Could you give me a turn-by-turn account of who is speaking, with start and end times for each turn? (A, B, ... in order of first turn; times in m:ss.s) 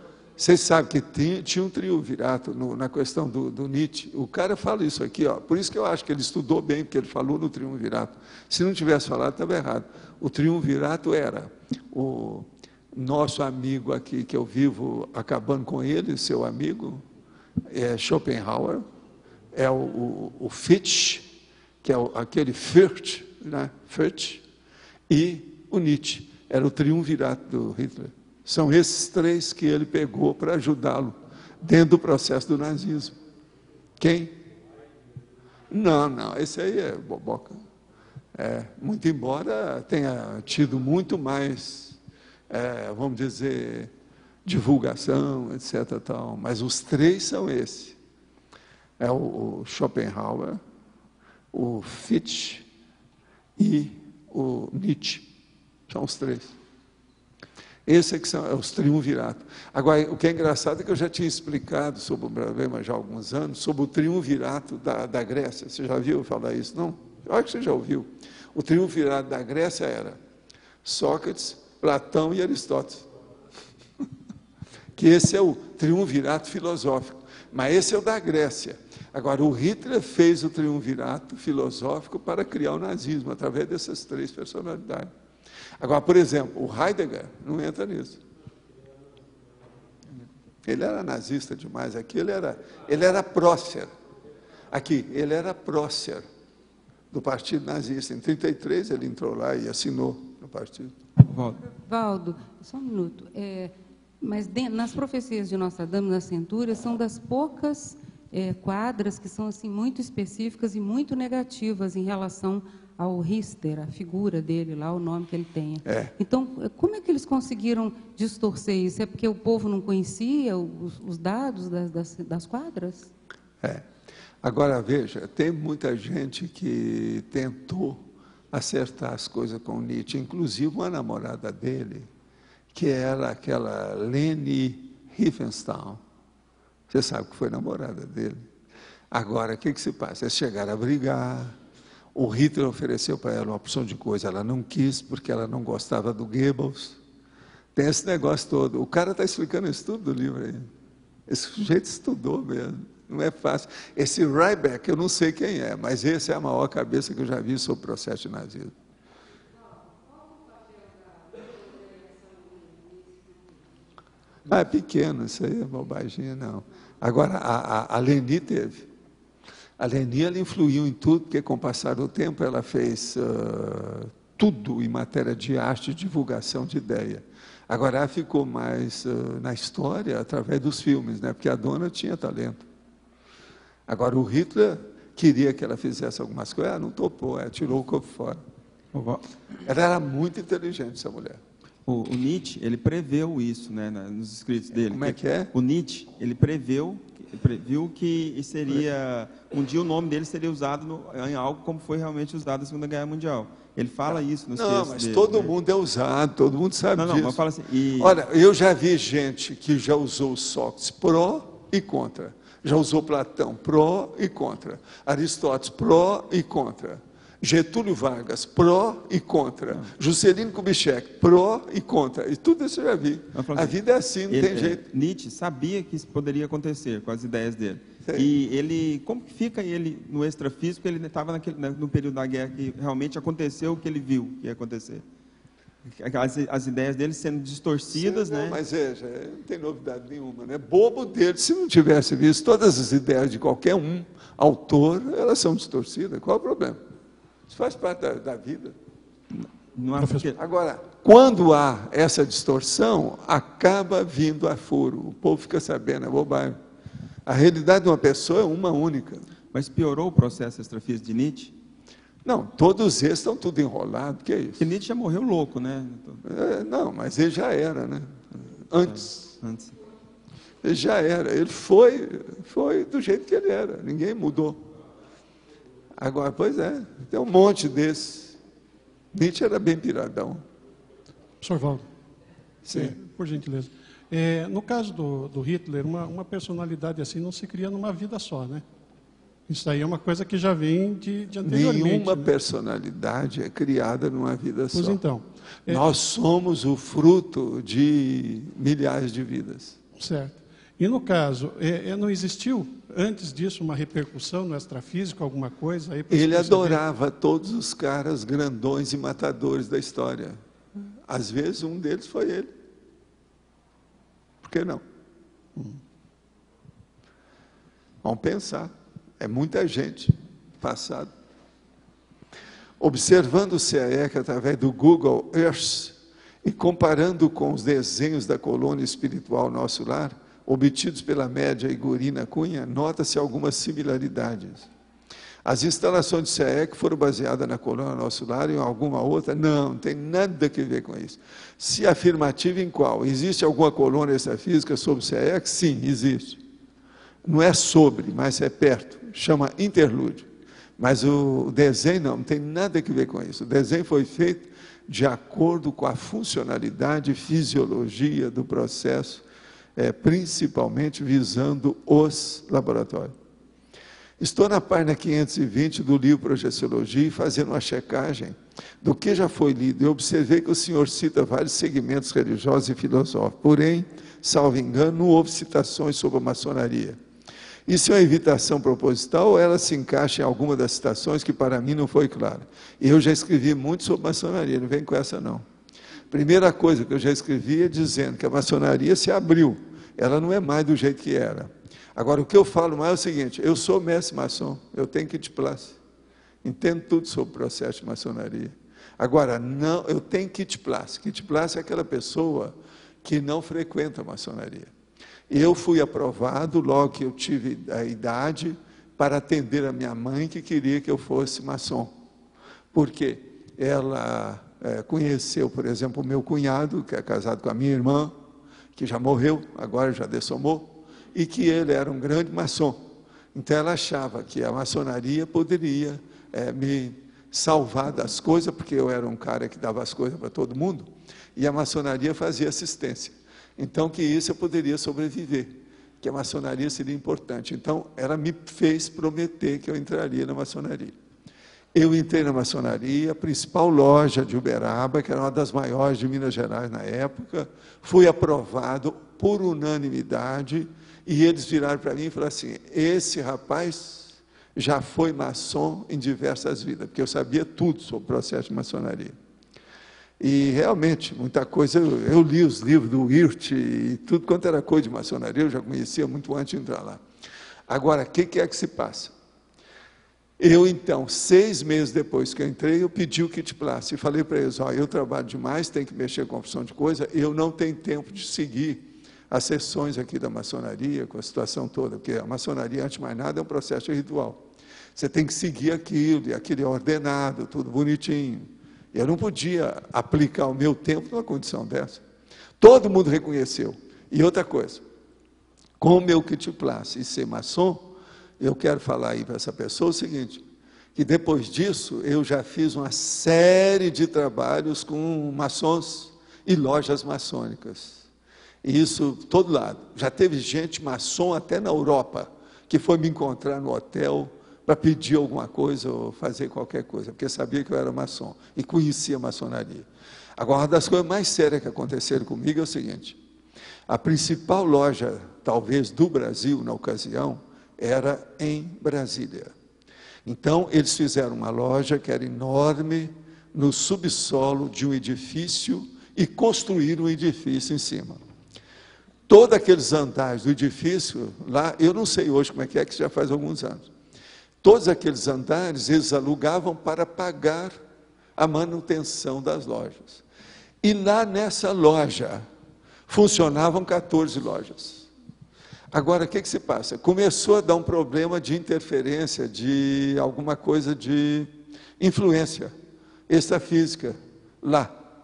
0:00.4-0:17.0 A
0:17.7-0:18.8 A
0:19.5-0:24.4 A
0:25.1-0:33.1 A
0:34.0-0:34.4 A
0:35.7-0:37.6 A
0:38.4-0:42.0 A
0:42.5-0:43.9 A
0:44.4-0:48.0 A
0:49.0-0:50.6 A
0:51.5-0:52.7 A
0:53.6-0:55.3 A
0:55.9-0:56.5 A
0:57.9-1:10.2 A
1:10.8-1:13.1 A
1:15.0-1:25.1 A
1:25.8-1:28.2 A
1:30.6-1:33.9 A
1:34.7-1:36.3 A
1:37.1-1:40.9 A
1:41.3-1:41.6 B
1:41.5-2:03.1 C
1:55.8-1:56.1 A
2:04.4-2:12.1 A
2:12.7-2:16.0 A
2:16.9-2:18.4 A
2:19.1-2:21.6 A
2:22.2-2:27.0 A
2:27.8-2:30.7 A
2:31.3-2:38.7 A
2:44.5-2:48.9 A
2:49.8-3:02.7 A
3:03.9-3:08.4 A
3:08.9-3:09.2 B
3:09.6-3:11.4 A
3:11.9-3:25.5 B
3:14.9-3:15.5 A
3:24.1-3:27.4 A
3:27.0-3:28.2 B
3:28.0-3:44.8 A
3:43.4-3:43.8 B
3:44.3-3:55.0 B
3:48.0-3:48.3 A
3:55.9-3:58.6 B
3:57.9-4:06.8 A
4:07.5-4:08.8 A
4:09.3-4:10.4 B
4:10.0-4:10.3 D
4:10.4-4:16.6 A
4:17.3-4:19.2 A
4:19.5-4:21.5 B
4:22.2-4:24.6 A
4:24.6-4:26.2 B
4:26.2-4:29.2 A
4:28.8-4:29.8 B
4:30.6-4:34.7 A
4:36.0-4:38.4 A
4:39.1-4:40.4 A
4:41.4-4:41.8 D
4:42.7-4:43.0 A
4:42.7-4:48.6 D
4:49.5-4:52.3 D
4:51.4-4:55.0 A
4:54.7-4:55.9 D
4:55.7-4:59.8 A
5:00.0-5:06.8 D
5:06.1-5:10.4 A
5:11.1-5:12.5 A
5:14.4-5:14.8 A
5:18.0-5:21.1 A
5:22.8-5:34.7 A
5:35.4-5:46.4 A
5:47.2-5:50.3 A
5:50.8-5:59.2 A
5:59.8-6:03.1 A
6:04.2-6:17.0 A
6:17.7-6:25.4 A
6:26.1-6:35.8 A
6:36.4-6:44.7 A
6:45.3-6:51.9 A
6:52.7-6:58.2 A
6:58.8-7:21.0 A
7:21.7-7:39.2 A
7:40.2-7:47.0 A
7:47.7-7:49.1 A
7:50.4-8:12.0 A
8:12.6-8:14.8 A
8:15.8-8:20.4 A
8:21.0-8:28.0 A
8:28.6-8:39.9 A
8:40.4-8:43.2 A
8:43.9-8:49.5 A
8:50.3-8:58.2 A
8:59.3-9:03.9 A
9:04.6-9:07.8 A
9:08.4-9:10.2 A
9:10.8-9:12.5 A
9:13.1-9:15.1 A
9:15.9-9:22.7 A
9:23.3-9:25.0 A